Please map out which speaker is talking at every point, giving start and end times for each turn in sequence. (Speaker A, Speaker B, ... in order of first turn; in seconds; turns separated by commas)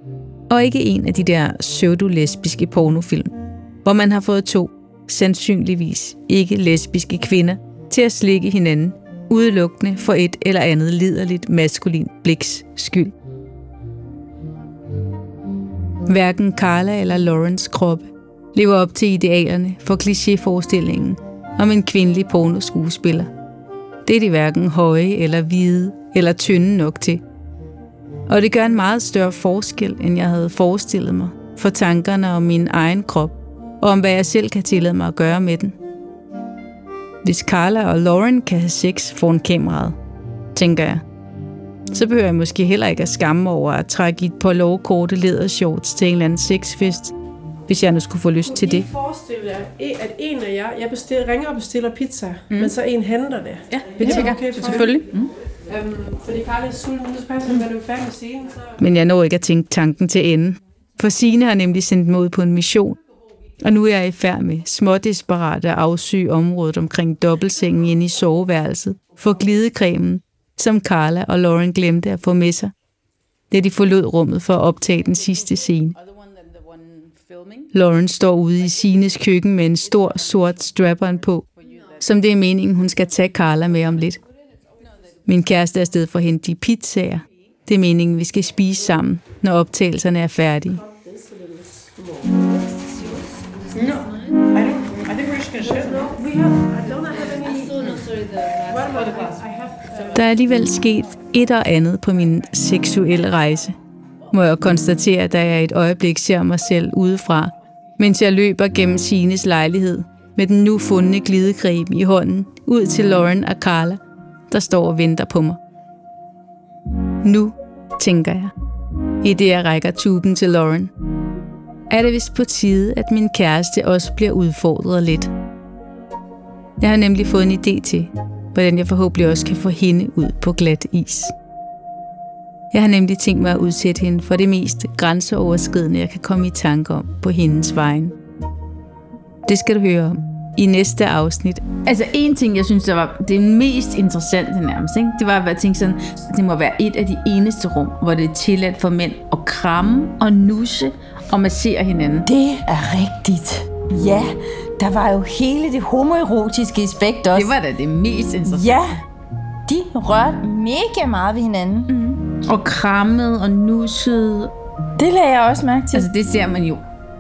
Speaker A: 0.5-13.1, Speaker A: 16.1-23.3, Speaker A: 24.1-27.2, Speaker A: 28.3-35.8, Speaker A: 37.2-40.0, Speaker A: 40.5-41.0, Speaker A: 41.9-47.1, Speaker A: 47.7-48.9, Speaker B: 48.5-55.1, Speaker A: 53.7-55.3, Speaker B: 55.7-58.8, Speaker A: 58.8-63.0, Speaker A: 63.6-72.7, Speaker A: 73.5-76.0, Speaker A: 77.7-81.5, Speaker A: 82.0-84.2, Speaker A: 85.2-90.8, Speaker B: 90.7-92.5, Speaker C: 93.8-96.1, Speaker B: 95.6-100.3, Speaker A: 100.1-103.8, Speaker A: 104.3-115.6, Speaker A: 117.2-118.5, Speaker A: 119.2-120.9, Speaker A: 121.9-125.3, Speaker A: 126.8-131.3, Speaker A: 132.7-138.1, Speaker A: 139.5-152.3, Speaker D: 152.3-157.6, Speaker A: 157.3-158.8, Speaker D: 158.4-159.0, Speaker D: 159.7-161.9, Speaker A: 161.9-164.5, Speaker D: 165.0-166.1, Speaker A: 165.9-166.8